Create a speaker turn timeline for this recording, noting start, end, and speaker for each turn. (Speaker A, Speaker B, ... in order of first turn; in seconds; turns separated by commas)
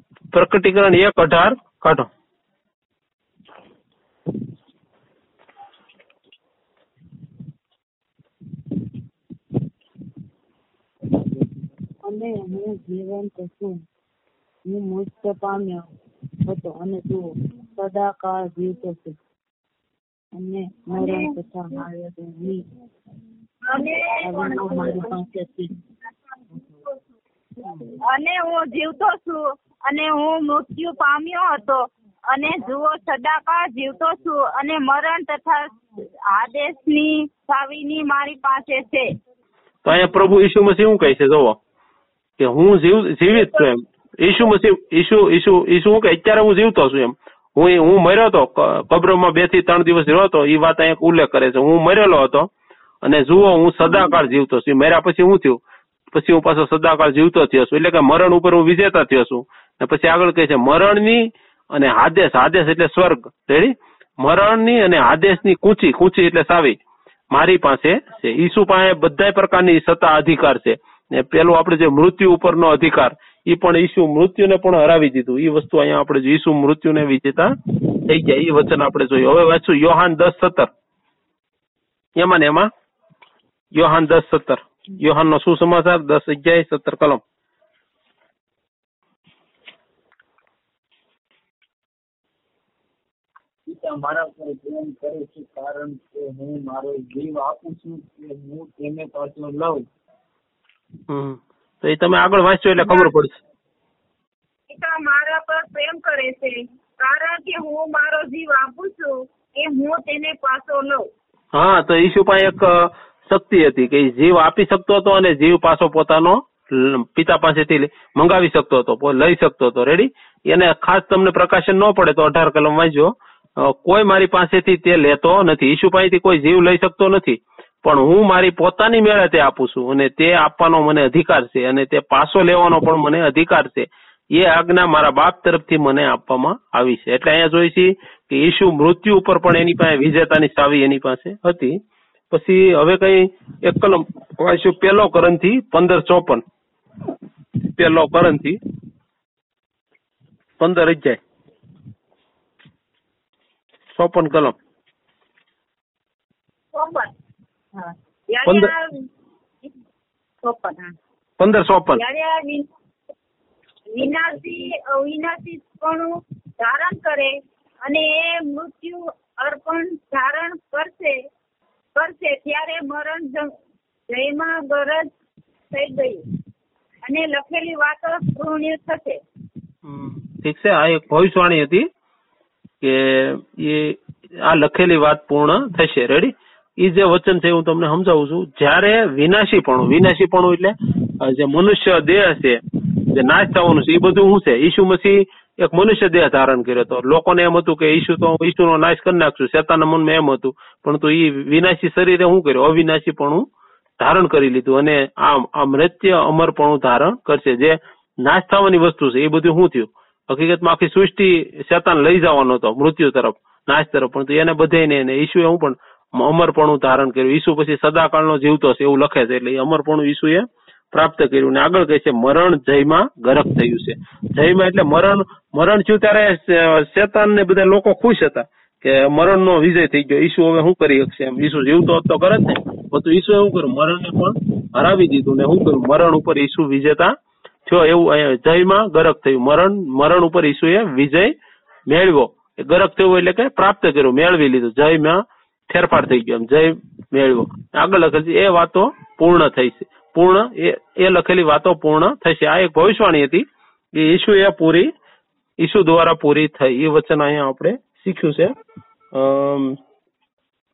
Speaker A: 0.3-2.1, Speaker B: 12.0-13.8, Speaker B: 14.7-19.1, Speaker B: 20.4-22.6, Speaker C: 21.0-21.2, Speaker C: 23.6-25.2, Speaker B: 24.2-25.7, Speaker C: 28.0-39.1, Speaker A: 39.8-41.6, Speaker A: 42.4-52.5, Speaker C: 43.4-43.7, Speaker A: 53.0-55.6, Speaker A: 56.1-66.8, Speaker A: 67.3-80.7, Speaker A: 82.2-82.7, Speaker A: 83.7-87.2, Speaker D: 93.7-99.8, Speaker A: 101.1-103.4, Speaker C: 102.8-103.1, Speaker C: 104.7-111.1, Speaker A: 111.5-141.8, Speaker A: 142.3-146.4, Speaker A: 147.6-148.6, Speaker A: 150.6-151.2, Speaker A: 153.9-154.6, Speaker C: 156.7-157.1, Speaker C: 158.3-159.0, Speaker A: 158.4-158.7, Speaker C: 160.4-160.8, Speaker A: 161.4-162.0, Speaker C: 161.9-162.7, Speaker C: 163.9-171.2, Speaker C: 171.9-173.5, Speaker C: 174.1-175.1, Speaker C: 175.7-176.2, Speaker C: 177.1-179.2, Speaker A: 179.8-181.9, Speaker A: 182.8-203.5, Speaker A: 204.0-241.3, Speaker A: 241.9-254.9, Speaker A: 255.6-258.5, Speaker A: 259.1-259.8